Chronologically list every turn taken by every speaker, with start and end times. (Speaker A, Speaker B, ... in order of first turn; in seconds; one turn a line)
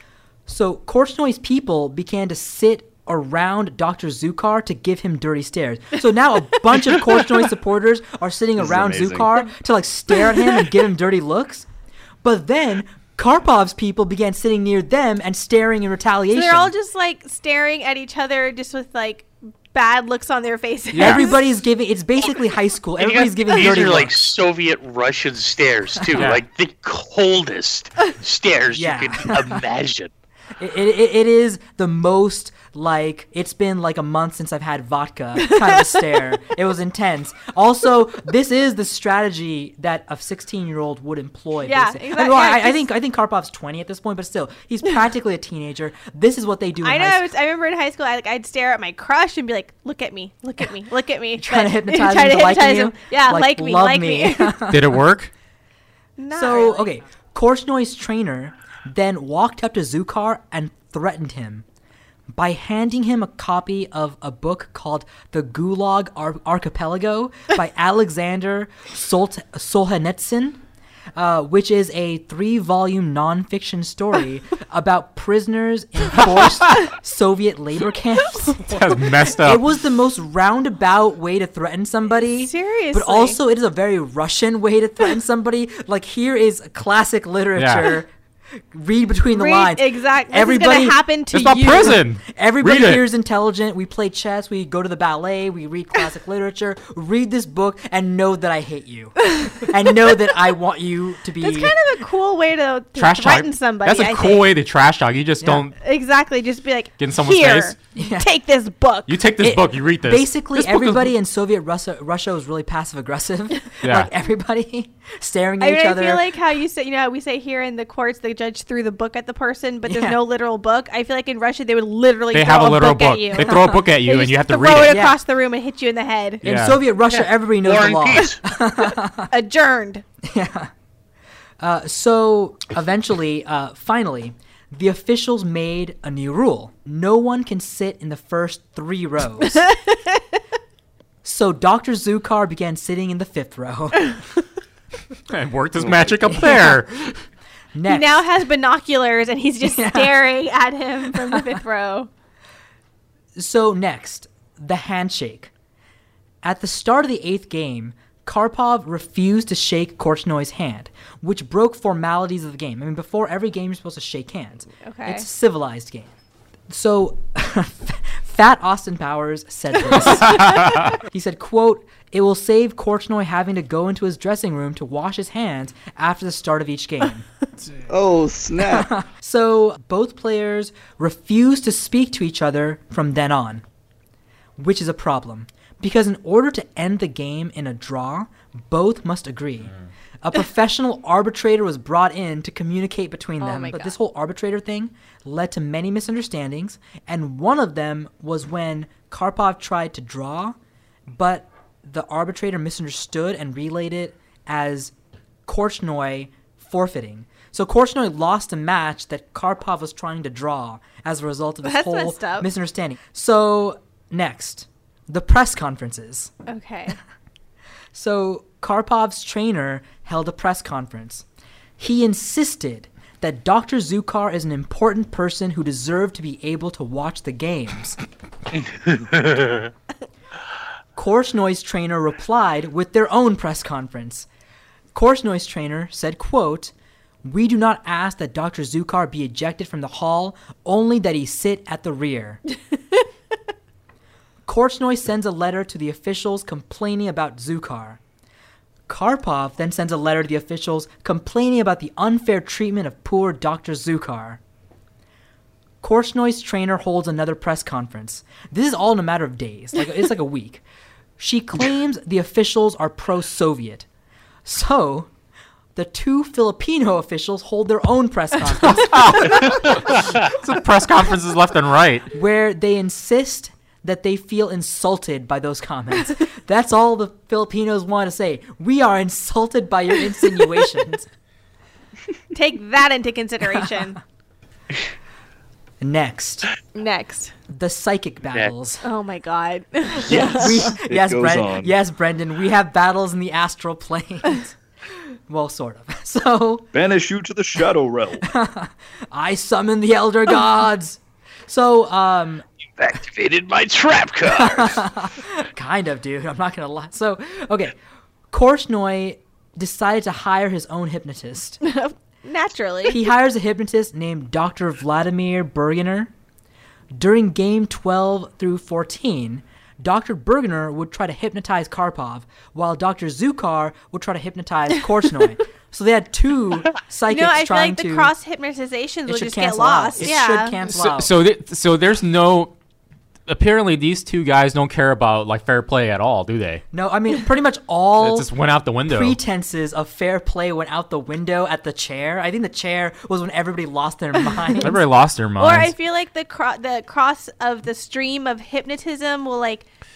Speaker A: 0.5-11.7
Speaker B: 8.6-9.4
Speaker A: 12.2-16.7
Speaker C: 16.3-21.5
Speaker D: 20.9-21.3
Speaker A: 21.0-24.2
Speaker E: 23.0-30.1
Speaker D: 26.1-26.4
Speaker A: 28.7-29.6
Speaker A: 30.6-47.3
Speaker C: 35.4-35.8
Speaker C: 41.6-42.9
Speaker C: 46.8-54.6
Speaker A: 51.4-55.0
Speaker D: 54.7-55.3
Speaker C: 56.2-57.0
Speaker A: 56.3-61.6
Speaker A: 62.3-70.6
Speaker A: 71.2-88.1
Speaker D: 78.6-79.7
Speaker C: 82.2-83.4
Speaker D: 87.6-88.0
Speaker A: 88.7-91.0
Speaker C: 89.3-92.1
Speaker D: 91.3-93.0
Speaker A: 91.9-101.7
Speaker C: 101.4-104.6
Speaker D: 103.0-105.8
Speaker A: 105.4-105.7
Speaker C: 105.8-109.2
Speaker D: 107.0-107.8
Speaker A: 108.0-108.3
Speaker D: 109.1-111.1
Speaker A: 109.4-116.3
Speaker D: 113.8-114.1
Speaker C: 115.6-126.5
Speaker A: 119.9-120.2
Speaker D: 122.3-125.1
Speaker A: 124.8-125.2
Speaker D: 126.4-126.8
Speaker A: 126.4-129.3
Speaker E: 127.1-128.4
Speaker C: 128.9-130.0
Speaker A: 130.2-130.7
Speaker A: 131.6-139.7
Speaker C: 139.6-140.2
Speaker A: 141.2-144.2
Speaker D: 145.3-147.2
Speaker B: 145.8-146.1
Speaker A: 147.8-148.2
Speaker C: 147.9-152.1
Speaker A: 149.7-150.1
Speaker A: 153.4-155.5
Speaker A: 156.4-166.1
Speaker C: 164.9-165.2
Speaker A: 166.7-177.3
Speaker D: 170.0-170.9
Speaker B: 177.9-178.9
Speaker A: 178.6-183.6
Speaker A: 184.6-200.6
Speaker C: 193.4-193.9
Speaker A: 201.1-204.9
Speaker A: 205.5-216.3
Speaker C: 211.6-212.5
Speaker C: 216.5-217.0
Speaker A: 217.9-221.2
Speaker A: 221.8-228.0
Speaker E: 228.9-229.7
Speaker A: 230.9-234.3
Speaker A: 234.9-236.7
Speaker A: 237.2-242.4
Speaker A: 244.5-248.0
Speaker A: 248.9-254.4
Speaker A: 255.8-260.6
Speaker A: 261.2-263.9
Speaker A: 264.4-265.1
Speaker A: 265.8-269.8
Speaker D: 268.5-272.1
Speaker A: 272.1-281.1
Speaker C: 282.3-284.0
Speaker A: 285.8-286.5
Speaker C: 286.7-287.3
Speaker A: 287.5-288.9
Speaker C: 288.8-290.7
Speaker A: 290.1-294.6
Speaker B: 290.1-291.8
Speaker A: 295.3-296.7
Speaker B: 296.7-298.3
Speaker A: 298.2-302.4
Speaker E: 302.8-304.9
Speaker A: 304.3-307.8
Speaker A: 308.3-311.6
Speaker C: 311.6-313.0
Speaker A: 312.9-316.1
Speaker A: 316.9-328.1
Speaker C: 327.1-330.6
Speaker A: 329.1-331.1
Speaker D: 330.6-332.6
Speaker D: 333.3-336.6
Speaker A: 336.7-338.3
Speaker D: 338.0-339.2
Speaker A: 338.9-344.8
Speaker D: 344.6-345.7
Speaker C: 345.4-349.7